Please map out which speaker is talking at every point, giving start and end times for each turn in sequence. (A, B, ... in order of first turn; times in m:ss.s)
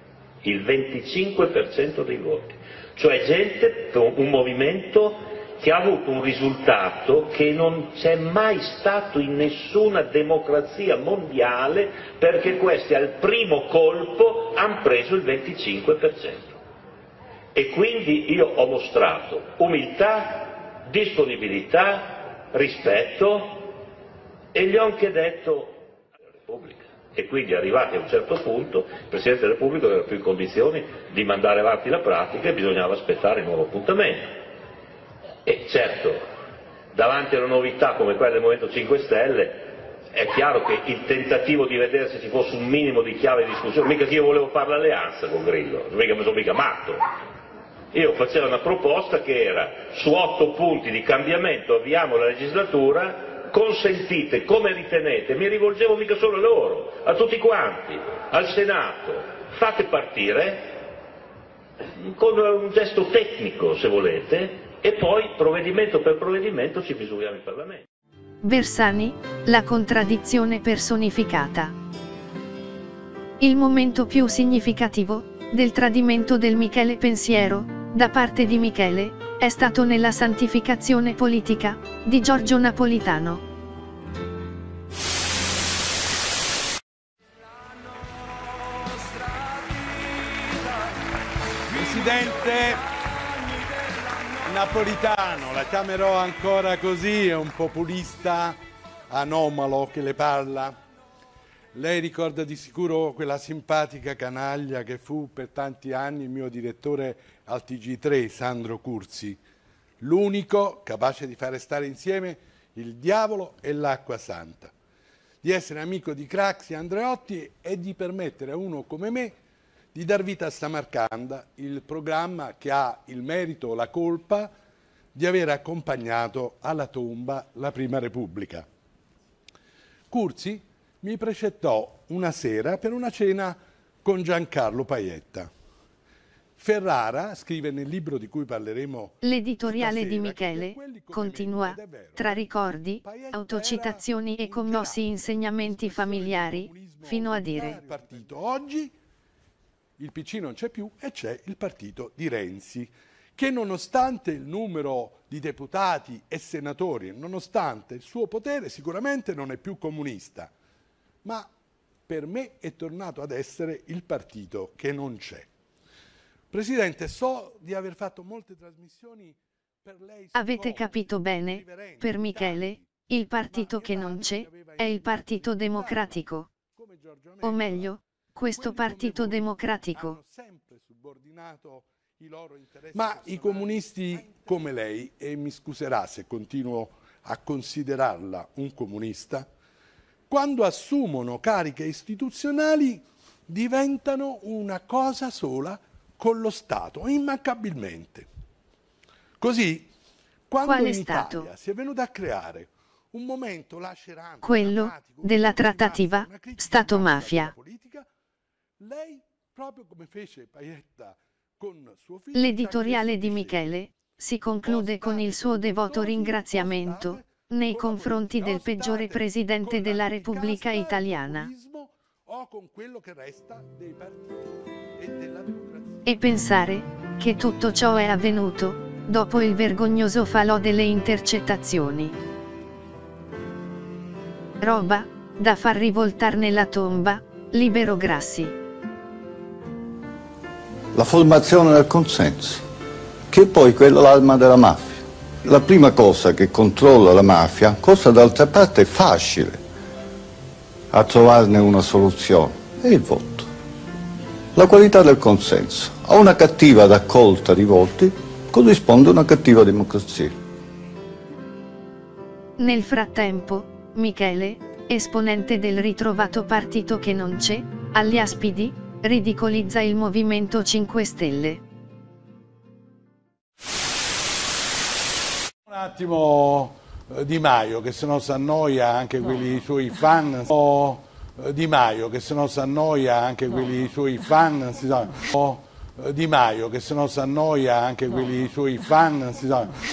0:00.4-0:16.4 A
0:17.6-0:23.7 A
0:24.6-0:25.7 A
0:26.5-0:34.2 A
0:35.5-0:36.2 A
0:37.0-0:39.6 A
0:40.2-0:47.0 A
0:47.9-1:00.6 A
1:02.2-1:07.7 A
1:08.4-1:11.7 B
1:13.4-1:23.4 B
1:31.7-1:32.9 C
1:34.4-1:38.6 C
1:39.1-1:40.8 C
1:41.7-1:49.4 C
1:50.0-1:54.7 C
1:55.4-1:59.4 C
1:59.9-2:04.5 C
2:05.1-2:08.7 C
2:10.1-2:15.5 C
2:16.6-2:28.9 C
2:19.2-2:27.8 B
2:30.0-2:40.5 C
2:41.2-2:41.5 C
2:42.1-2:45.5 C
2:46.5-2:52.8 C
2:50.4-2:56.5 B
2:53.5-3:09.5 C
2:57.4-3:00.2 B
3:10.3-3:18.3 C
3:19.4-3:19.9 C
3:20.5-3:28.1 C
3:20.6-3:21.5 B
3:24.4-3:27.5 B
3:28.8-3:33.6 C
3:32.3-3:41.5 B
3:34.6-3:46.1 C
3:46.1-3:52.2 B
3:54.6-3:58.6 B
4:00.9-4:02.6 D
4:03.3-4:09.6 D
4:10.9-4:13.5 D
4:14.6-4:20.4 D
4:22.6-4:31.6 B
4:35.7-4:49.8 C